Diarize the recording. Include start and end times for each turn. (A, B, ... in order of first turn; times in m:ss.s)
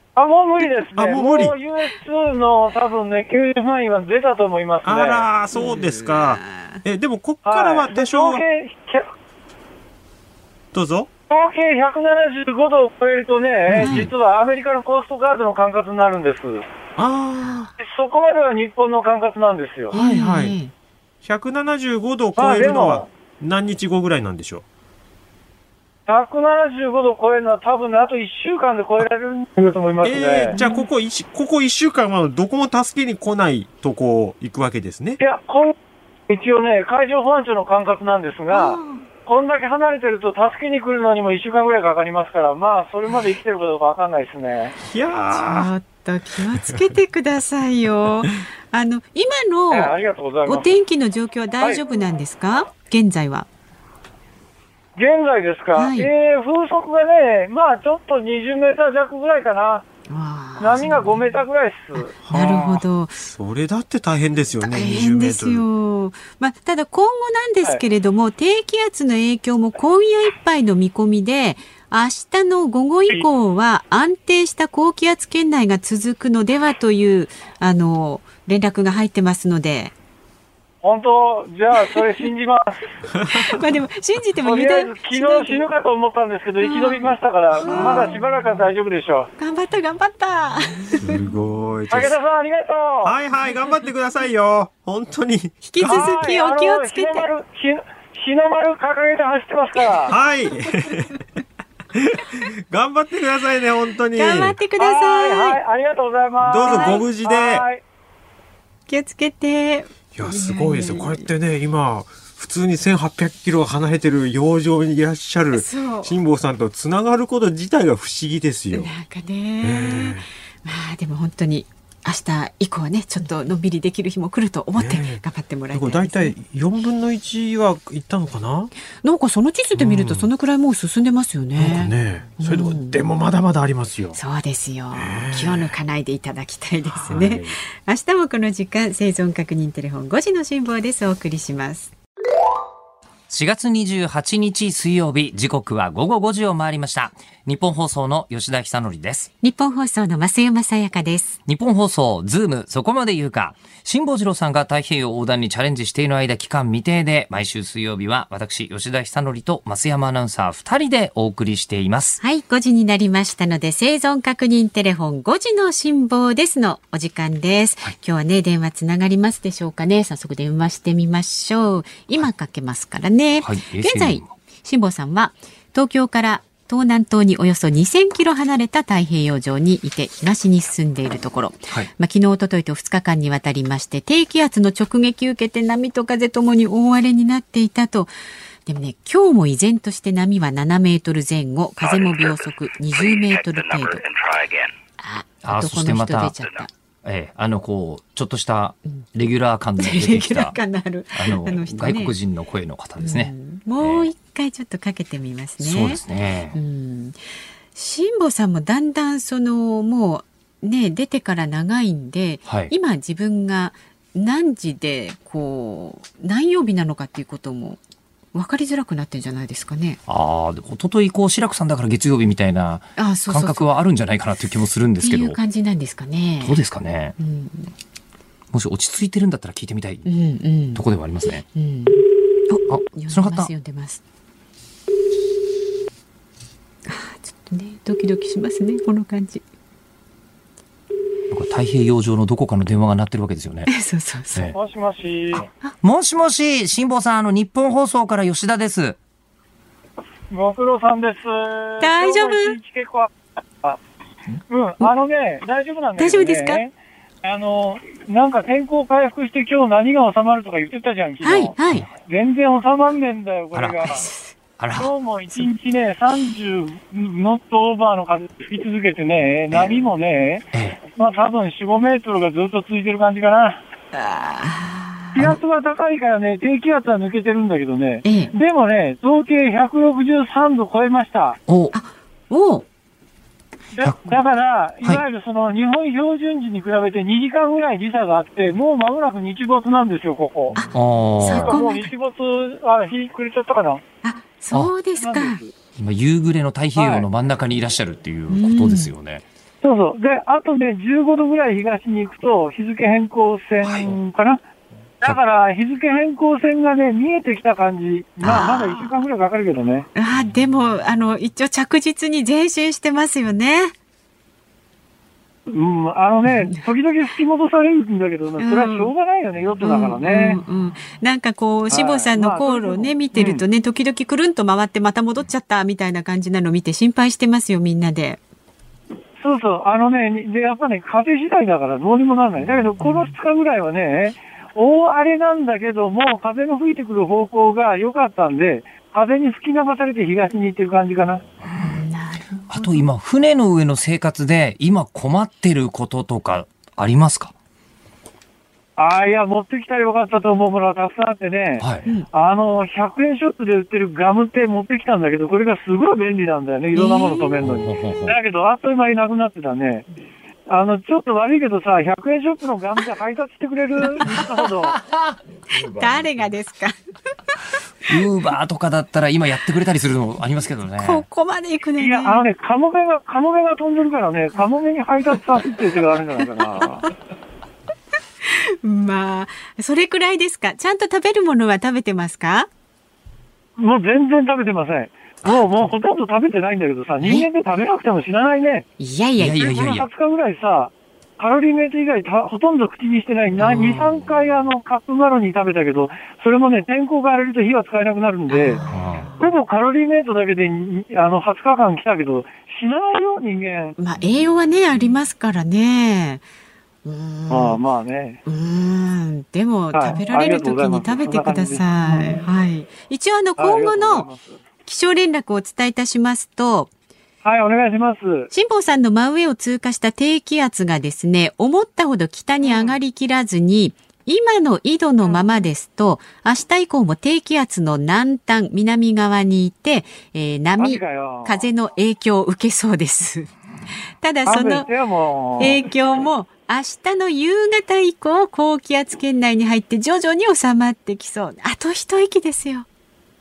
0:00.2-0:05.3 A
0:01.0-0:01.5 B
0:04.8-0:08.4 B
0:05.5-0:06.8 C
0:07.4-0:09.1 A
0:10.7-0:11.1 B
0:11.3-0:16.6 A
0:13.7-0:14.1 B
0:13.8-0:14.1 C
0:17.0-0:17.7 B
0:17.8-0:19.9 A
0:19.9-0:20.7 C
0:19.9-0:20.6 B
0:21.2-0:24.6 B
0:22.4-0:23.1 A
0:26.1-0:30.6 A
0:30.0-0:35.2 B
0:30.5-0:30.9 C
0:35.2-0:35.8 A
0:36.3-0:44.8 A
0:38.5-0:39.0 C
0:44.8-0:45.7 B
0:45.3-0:53.5 C
0:49.7-0:50.7 A
0:55.0-0:59.9 A
0:55.8-0:56.1 C
1:00.1-1:01.4 C
1:00.6-1:02.2 A
1:01.9-1:03.2 C
1:02.2-1:05.6 B
1:04.6-1:19.9 C
1:20.8-1:22.9 A
1:23.1-1:23.6 B
1:23.3-1:25.6 C
1:24.4-1:29.3 A
1:26.6-1:28.3 C
1:29.4-1:31.2 C
1:31.0-1:32.2 B
1:31.9-1:33.2 A
1:33.0-1:36.1 B
1:35.6-1:37.3 C
1:35.8-1:40.1 A
1:40.1-1:41.2 B
1:41.9-1:44.6 B
1:44.2-1:45.6 C
1:44.8-1:47.8 A
1:46.4-1:47.6 B
1:46.7-1:47.0 C
1:48.9-1:51.3 C
1:50.2-1:58.9 B
1:55.5-1:56.2 C
1:58.7-2:06.4 C
1:59.6-2:00.3 B
2:04.8-2:08.7 B
2:09.0-2:13.0 C
2:09.8-2:10.3 B
2:11.6-2:14.2 B
2:14.1-2:21.9 C
2:14.9-2:15.7 B
2:16.9-2:17.6 B
2:23.3-2:29.3 D
2:29.4-2:31.4 C
2:31.5-2:42.2 D
2:42.2-3:08.1 C
2:53.4-2:54.3 D
3:08.7-3:14.1 C
3:15.0-3:16.7 C
3:15.4-3:16.4 D
3:17.0-3:20.6 D
3:19.8-3:22.2 C
3:21.1-3:24.1 D
3:23.0-3:27.2 C
3:25.6-3:26.6 D
3:27.7-3:37.8 C
3:32.5-3:32.7 D
3:38.3-3:40.0 C
3:40.1-3:45.4 D
3:43.0-3:43.7 C
3:45.0-3:46.6 C
3:46.4-3:47.2 D
3:47.2-3:47.7 C
3:48.5-3:50.1 D
3:50.0-3:50.8 C
3:50.8-3:51.4 D
3:51.6-3:54.0 C
3:52.7-3:53.5 D
3:56.9-3:59.4 C
4:01.3-4:03.7 D
4:03.7-4:04.5 C
4:04.5-4:05.5 A
4:05.4-4:09.0 D
4:10.3-4:13.1 A
4:11.8-4:12.6 C
4:14.5-4:24.0 A
4:16.0-4:16.6 C
4:21.2-4:21.9 C
4:23.5-4:24.0 D
4:23.9-4:24.3 C
4:24.6-4:24.9 D
4:24.8-4:33.6 A
4:30.5-4:30.8 D
4:33.9-4:35.3 C
4:35.2-4:41.4 A
4:38.0-4:38.3 C
4:41.5-4:41.8 D
4:41.7-4:42.7 C
4:43.8-4:50.6 A
4:43.8-4:44.2 D
4:50.6-4:51.9 C
4:50.6-4:51.6 D
4:51.2-4:53.8 A
4:54.0-4:55.4 C
4:55.0-4:55.5 A
4:55.8-4:59.2 D
4:56.8-4:57.1 A
4:58.3-4:58.9 C
4:59.6-5:04.4 A
5:03.6-5:04.0 D
5:05.0-5:09.9 A
5:08.2-5:09.0 C
5:10.0-5:13.7 C
5:15.5-5:20.4 A
5:18.4-5:18.9 C
5:19.6-5:28.2 C
5:21.7-5:23.4 A
5:29.2-5:41.2 A
5:32.8-5:33.1 C
5:41.5-5:42.9 C
5:42.5-5:47.3 D
5:48.8-5:59.9 A
5:51.6-5:51.9 D
5:56.8-5:57.4 C
5:57.4-5:58.2 D
6:00.5-6:04.8 A
6:04.1-6:06.0 D
6:05.6-6:06.8 C
6:07.9-6:11.0 D
6:10.8-6:12.2 C
6:11.8-6:16.9 A
6:18.2-6:22.5 C
6:23.6-6:28.6 A
6:28.8-6:29.5 C
6:29.2-6:29.9 D
6:29.4-6:38.6 A
6:33.4-6:33.9 D
6:38.3-6:39.3 C
6:38.7-6:39.1 D
6:39.2-6:43.8 A
6:43.8-6:46.2 C
6:46.8-6:47.6 C
6:47.3-6:48.2 A
6:48.3-6:54.1 C
6:49.7-6:52.2 A
6:53.4-6:54.4 A
6:54.6-6:56.7 C
6:57.2-6:58.3 A
6:58.3-7:13.3 C
7:02.4-7:02.8 A
7:05.0-7:05.4 A
7:10.6-7:11.4 A
7:14.0-7:14.7 C
7:14.3-7:15.6 A
7:15.4-7:22.7 C